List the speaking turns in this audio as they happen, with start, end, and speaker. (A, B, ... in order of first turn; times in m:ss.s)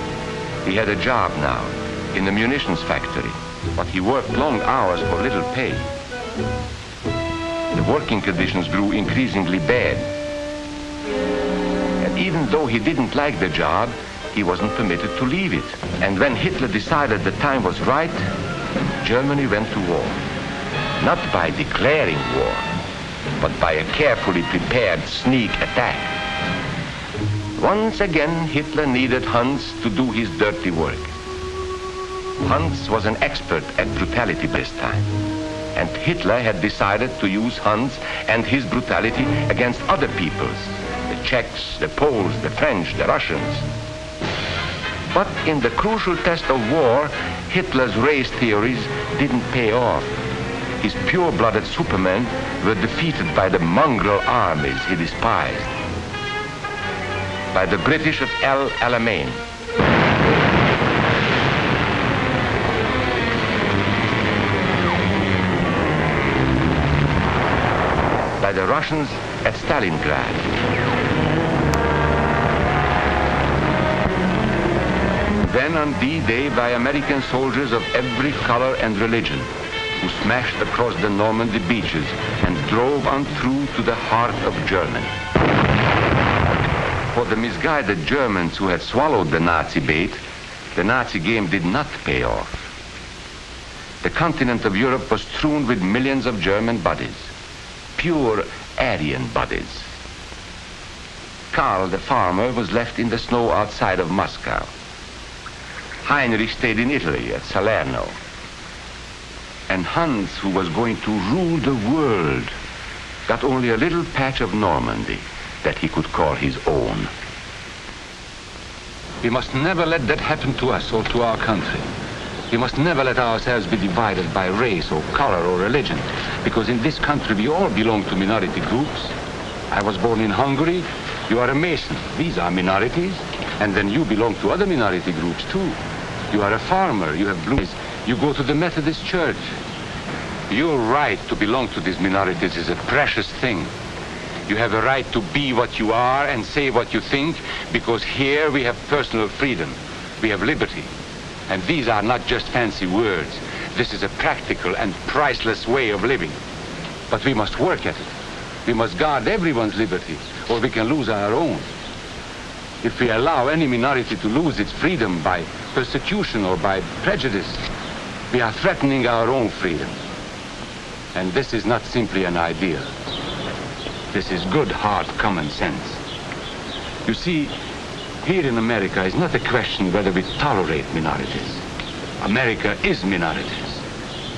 0:00.6-0:05.8 A
0:07.7-0:10.0 A
0:12.0-0:18.3 A
0:19.0-0:20.2 A
0:21.0-0:22.7 A
0:23.4-0:26.1 A
0:27.6-0:31.1 A
0:32.4-0:35.1 A
0:35.7-0:43.6 A
0:45.1-0:50.1 A
0:50.8-0:55.7 A
0:57.5-0:59.4 A
1:08.4-1:10.5 A
1:15.4-1:19.5 A
1:20.0-1:25.1 A
1:27.1-1:30.2 A
1:30.7-1:32.5 A
1:34.0-1:37.3 A
1:38.0-1:39.9 A
1:41.5-1:44.7 A
1:46.0-1:48.2 A
1:49.7-1:52.5 A
1:53.3-1:57.1 A
1:59.2-2:01.9 A
2:02.5-2:09.1 A
2:09.7-2:15.8 A
2:16.3-2:19.5 A
2:20.5-2:23.7 A
2:24.5-2:30.9 A
2:31.5-2:36.4 A
2:37.1-2:38.1 A
2:38.6-2:41.7 A
2:42.8-2:47.6 A
2:48.3-2:50.0 A
2:51.1-2:52.9 A
2:54.1-2:56.0 A
2:57.0-2:57.5 A
2:58.2-3:01.6 A
3:02.2-3:03.8 A